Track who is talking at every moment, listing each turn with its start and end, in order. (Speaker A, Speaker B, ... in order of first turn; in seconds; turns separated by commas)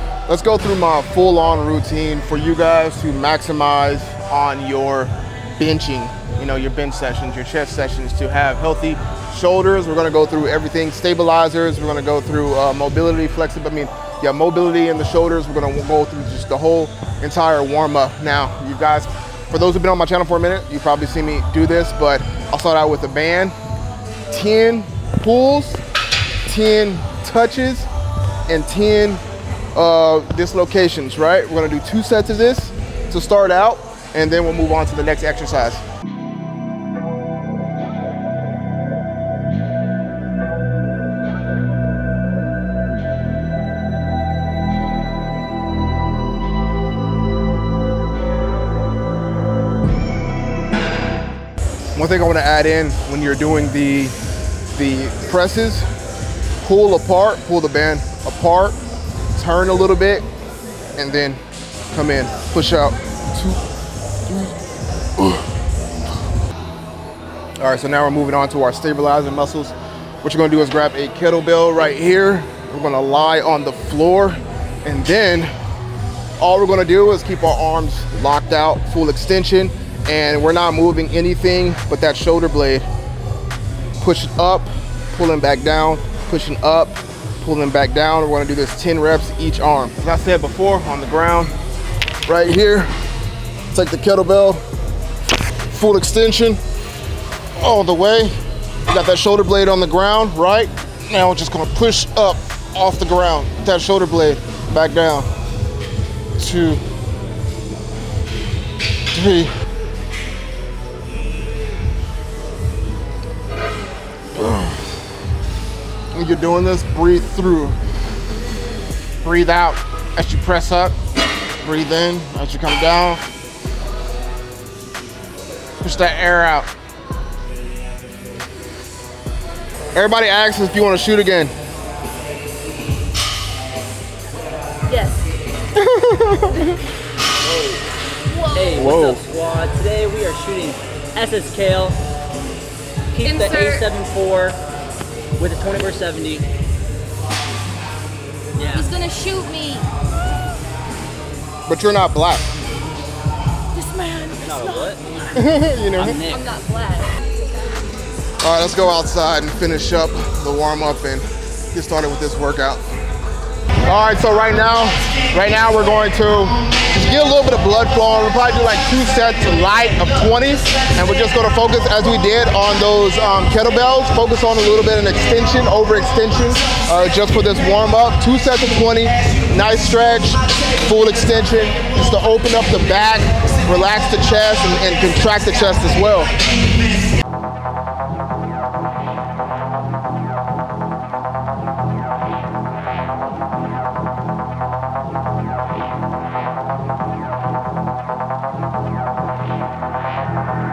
Speaker A: 0.3-23.5, Speaker A: 24.3-25.8, Speaker A: 26.4-27.9, Speaker A: 28.5-29.2, Speaker A: 29.7-35.8, Speaker A: 51.9-54.1, Speaker A: 54.7-55.9, Speaker A: 56.6-58.8, Speaker A: 59.3-60.3, Speaker A: 61.0-63.6, Speaker A: 64.3-64.6, Speaker A: 65.2-65.5, Speaker A: 67.6-75.5, Speaker A: 76.4-82.8, Speaker A: 84.0-91.5, Speaker A: 92.2-92.9, Speaker A: 93.7-94.6, Speaker A: 95.7-96.6, Speaker A: 97.6-98.3, Speaker A: 98.9-105.3, Speaker A: 106.3-106.8, Speaker A: 109.1-109.5, Speaker A: 114.3-115.0, Speaker A: 116.1-117.8, Speaker A: 119.2-121.0, Speaker A: 121.6-123.2, Speaker A: 125.8-126.7, Speaker A: 129.9-131.5, Speaker B: 134.9-135.3, Speaker A: 135.7-136.8, Speaker C: 137.4-137.8, Speaker B: 138.3-138.7, Speaker C: 138.4-142.0, Speaker A: 138.7-139.2, Speaker C: 143.1-144.6, Speaker B: 143.3-143.8, Speaker C: 145.4-146.4, Speaker C: 148.5-148.9, Speaker B: 148.7-149.9, Speaker A: 151.7-152.5, Speaker B: 153.7-154.9, Speaker C: 154.4-156.4, Speaker A: 155.3-156.2, Speaker B: 156.5-157.1, Speaker A: 158.4-162.8, Speaker A: 163.8-186.3